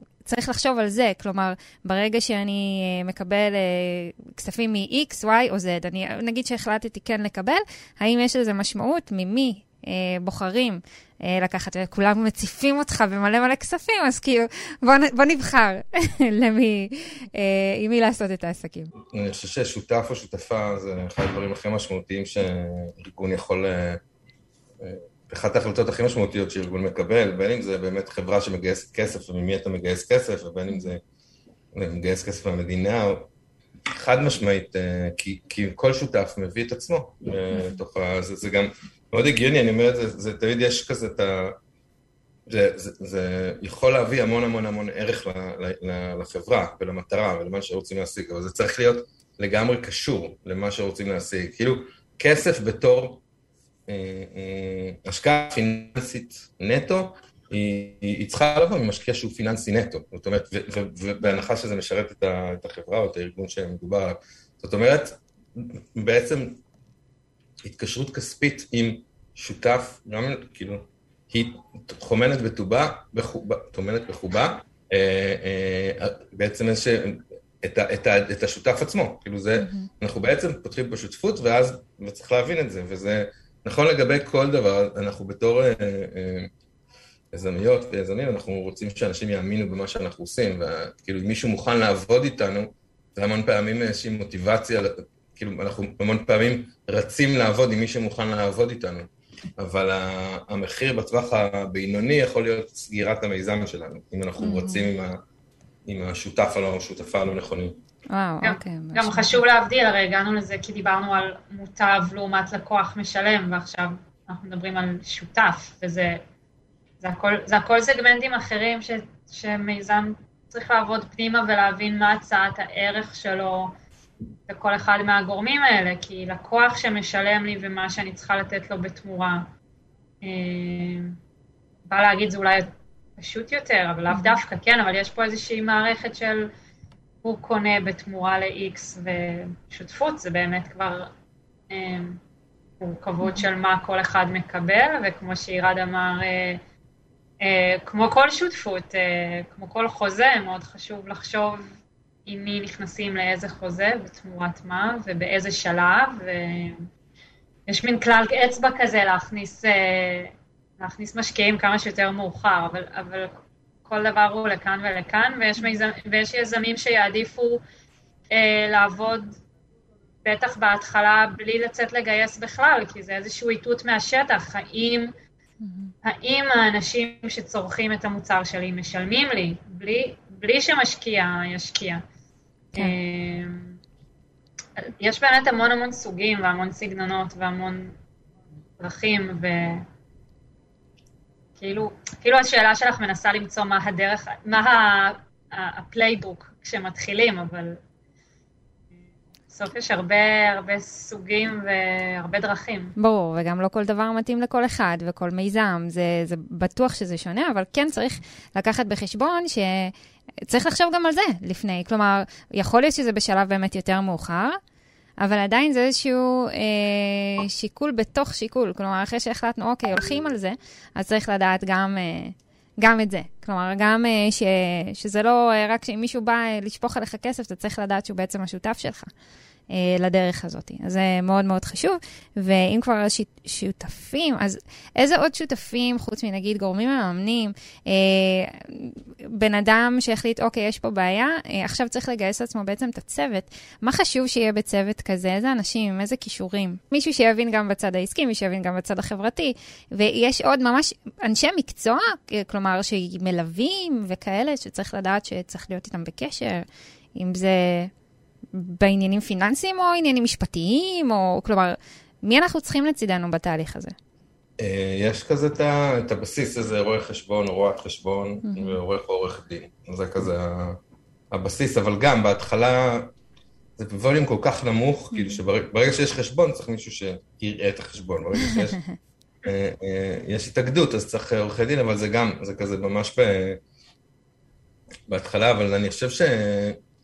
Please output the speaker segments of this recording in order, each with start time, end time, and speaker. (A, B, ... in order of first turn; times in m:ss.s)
0:00.2-0:18.9 A
0:19.0-0:24.0 B
0:24.8-0:31.0 B
0:30.7-0:30.9 A
0:31.8-0:33.3 B
0:33.9-0:41.6 B
0:37.5-0:37.8 A
0:42.5-0:53.2 B
0:53.9-1:06.6 B
1:07.6-1:26.5 B
1:19.6-1:19.9 A
1:27.3-1:45.2 B
1:44.4-1:44.9 A
1:45.9-1:47.8 B
1:48.1-1:49.4 A
1:48.4-1:56.2 C
1:57.0-2:03.7 C
2:04.5-2:09.5 C
2:10.2-2:11.2 C
2:11.9-2:16.5 C
2:14.1-2:14.4 A
2:17.2-2:21.1 C
2:21.7-2:22.2 C
2:22.8-2:26.6 C
2:27.4-2:31.7 C
2:32.3-2:36.9 C
2:37.7-2:47.6 C
2:48.3-2:49.4 C
2:50.2-2:55.1 C
2:55.6-2:55.9 A
2:56.0-3:02.0 C
3:02.8-3:03.8 C
3:04.8-3:08.0 C
3:08.8-3:09.9 C
3:11.6-3:17.8 C
3:19.5-3:22.9 C
3:23.0-3:29.9 A
3:30.5-3:34.6 A
3:35.2-3:49.1 A
3:49.7-4:17.9 A
4:18.5-4:24.0 A
4:24.6-4:30.8 B
4:28.4-4:28.8 A
4:31.3-4:33.1 B
4:33.8-4:38.8 B
4:35.1-4:35.4 A
4:38.4-4:38.8 A
4:39.4-4:43.6 B
4:45.1-4:46.8 B